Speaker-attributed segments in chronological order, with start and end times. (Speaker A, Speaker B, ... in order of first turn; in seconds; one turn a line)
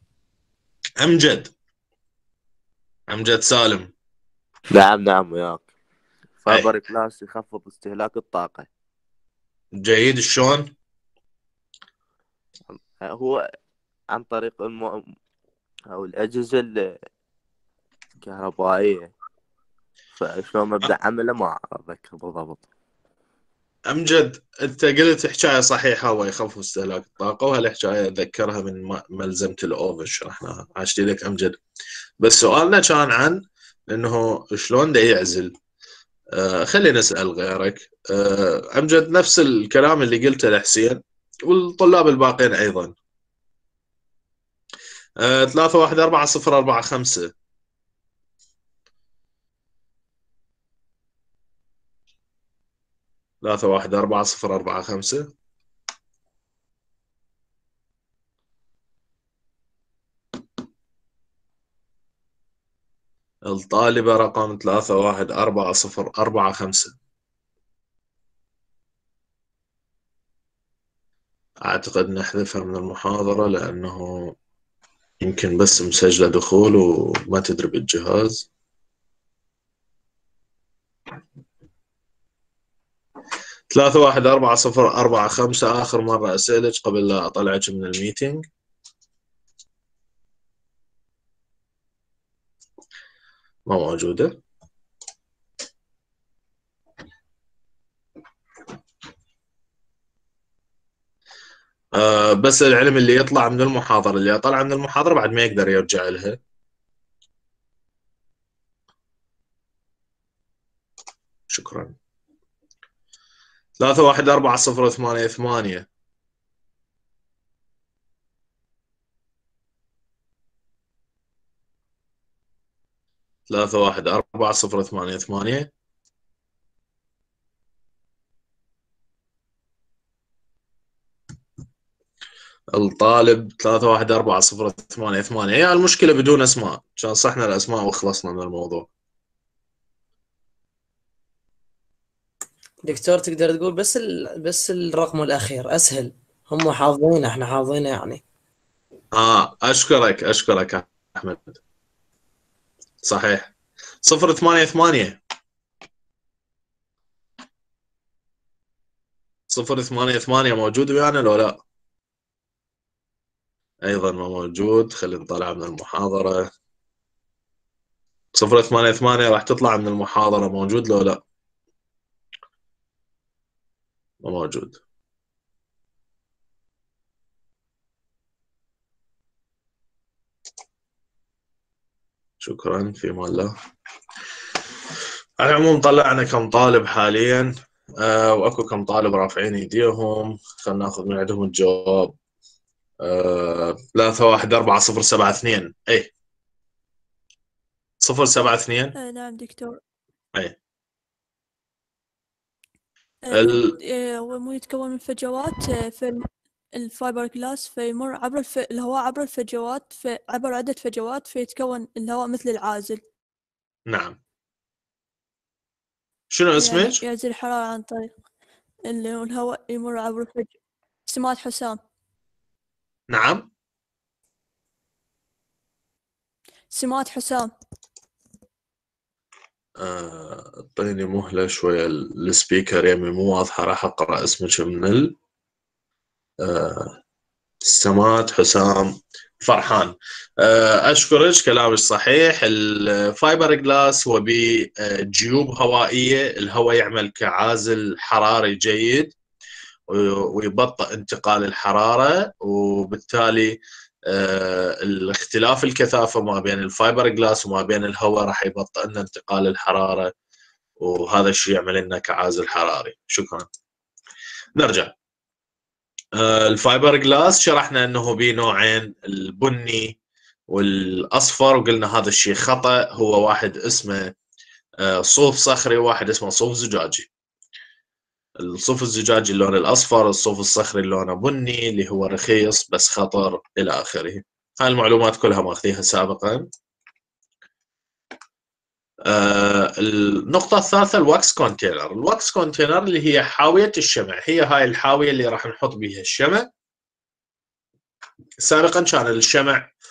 Speaker A: 1.0-1.5
Speaker A: 3.1-3.9
Speaker B: 4.7-5.7
Speaker B: 6.4-8.7
Speaker A: 9.8-10.7
Speaker B: 12.7-13.4
Speaker B: 14.1-15.0
Speaker B: 15.9-16.7
Speaker B: 18.2-19.1
Speaker B: 20.2-22.7
Speaker A: 23.9-31.6
Speaker A: 32.2-35.5
Speaker A: 36.3-42.9
Speaker A: 45.2-47.3
Speaker A: 53.4-55.3
Speaker A: 63.5-66.9
Speaker A: 71.6-74.3
Speaker A: 75.2-78.5
Speaker A: 83.7-88.4
Speaker A: 93.7-94.4
Speaker A: 101.9-106.4
Speaker A: 111.5-111.9
Speaker A: 113.8-115.9
Speaker A: 123.5-125.7
Speaker A: 132.7-138.9
Speaker C: 142.8-148.2
Speaker A: 149.1-151.6
Speaker A: 153.0-153.5
Speaker A: 154.0-155.2
Speaker A: 159.5-161.6
Speaker A: 163.8-166.5
Speaker A: 168.3-171.2
Speaker A: 174.2-174.8
Speaker A: 182.4-183.5
Speaker A: 185.4-192.1
Speaker A: 193.0-196.1
Speaker A: 198.0-198.9
Speaker D: 198.9-199.8
Speaker D: 203.2-213.0
Speaker A: 203.3-203.7
Speaker A: 213.9-214.2
Speaker A: 216.3-217.0
Speaker D: 216.6-218.1
Speaker D: 218.8-220.5
Speaker D: 221.1-221.8
Speaker A: 223.1-223.5
Speaker D: 226.7-227.5
Speaker A: 229.8-235.1
Speaker A: 236.4-237.0
Speaker A: 237.6-249.1
Speaker A: 249.9-260.1
Speaker A: 260.8-263.5
Speaker A: 264.6-264.9
Speaker A: 266.1-269.9
Speaker A: 270.5-274.1
Speaker A: 274.8-277.1
Speaker A: 278.4-286.5
Speaker A: 289.1-296.5
Speaker A: 298.4-299.7